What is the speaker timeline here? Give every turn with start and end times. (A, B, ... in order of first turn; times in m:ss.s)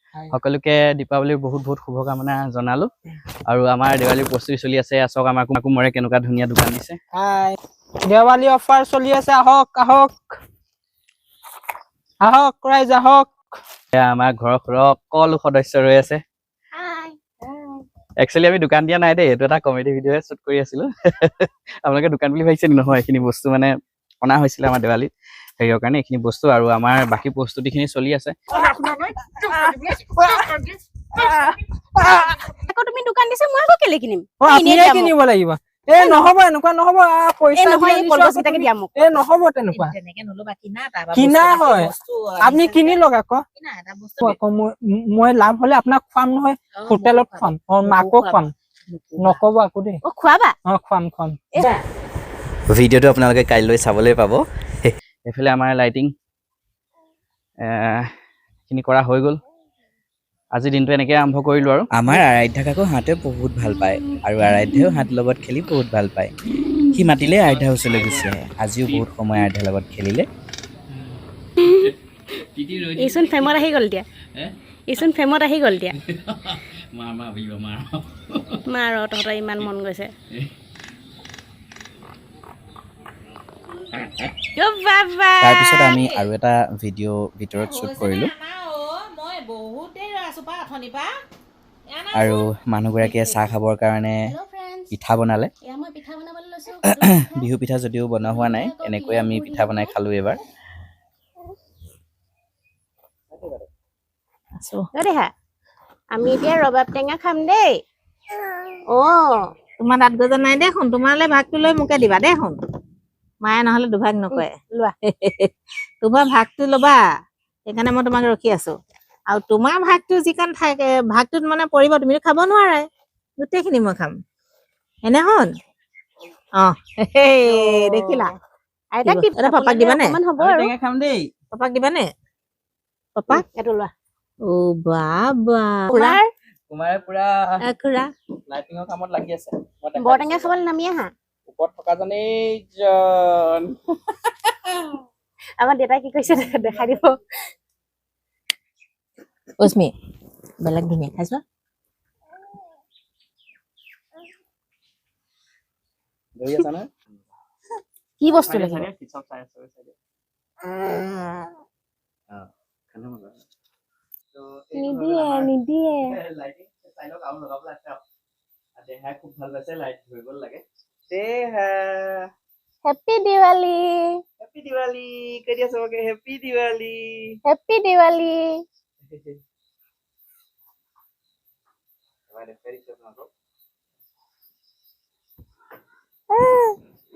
0:00.3-0:02.9 A
0:03.5-0:07.0 A
0:07.1-0:10.2 B
0:12.2-0:13.4 B
0:13.9-0:16.2 A
0:16.8-0:17.8 C
0:18.2-0:28.3 A
0:28.6-0:30.3 B
0:31.2-0:32.4 B
0:32.6-0:35.1 D
0:34.4-0:39.9 B
0:36.0-0:36.2 D
0:37.6-0:39.0 D
0:39.7-0:43.0 C
0:41.1-0:43.4 B
0:43.6-0:44.4 C
0:44.2-0:48.5 B
0:46.8-0:47.5 C
0:49.2-0:50.0 B
0:50.0-0:50.5 D
0:50.6-0:51.4 B
0:52.7-0:54.4 E
0:55.2-0:56.1 A
0:57.6-0:58.1 A
0:58.7-0:59.4 A
1:00.5-1:01.9 A
1:01.9-1:06.3 E
1:06.9-1:10.2 E
1:07.2-1:09.4 A
1:12.5-1:13.6 A
1:12.9-1:14.0 D
1:14.9-1:15.9 D
1:16.0-1:18.6 A
1:18.6-1:20.1 D
1:24.5-1:26.2 D
1:25.4-1:28.3 E
1:27.6-1:31.1 D
1:31.9-1:32.4 D
1:32.1-1:34.2 E
1:33.0-1:33.5 D
1:34.2-1:34.9 D
1:34.9-1:35.5 E
1:35.6-1:37.4 D
1:36.8-1:40.4 E
1:38.3-1:39.9 D
1:43.4-1:43.6 A
1:44.6-1:44.9 C
1:44.9-1:45.3 D
1:46.1-1:47.8 D
1:48.9-1:49.4 D
1:49.8-1:52.6 C
1:53.4-1:54.5 C
1:54.3-1:54.9 D
1:55.1-1:57.0 C
1:57.7-1:58.7 C
1:59.3-2:02.8 C
2:03.4-2:04.1 C
2:05.0-2:05.5 C
2:06.6-2:08.3 C
2:07.6-2:08.3 D
2:08.9-2:10.7 D
2:09.0-2:10.2 C
2:10.4-2:11.3 A
2:11.5-2:12.1 C
2:13.2-2:13.4 C
2:13.3-2:13.9 D
2:14.4-2:16.2 C
2:15.9-2:16.2 D
2:16.7-2:17.6 A
2:17.6-2:18.1 C
2:18.5-2:20.6 A
2:20.0-2:21.1 D
2:21.5-2:23.7 A
2:24.3-2:24.9 A
2:25.6-2:27.2 D
2:29.6-2:29.9 C
2:30.6-2:31.4 C
2:36.4-2:36.9 A
2:38.2-2:38.9 D
2:38.3-2:39.9 A
2:42.3-2:43.4 A
2:44.3-2:45.5 A
2:44.7-2:46.2 D
2:46.0-2:48.0 A
2:48.8-2:52.3 A
2:52.8-2:54.1 D
2:54.4-2:57.4 A
2:57.4-2:58.6 D
3:02.3-3:03.2 A
3:06.3-3:06.7 D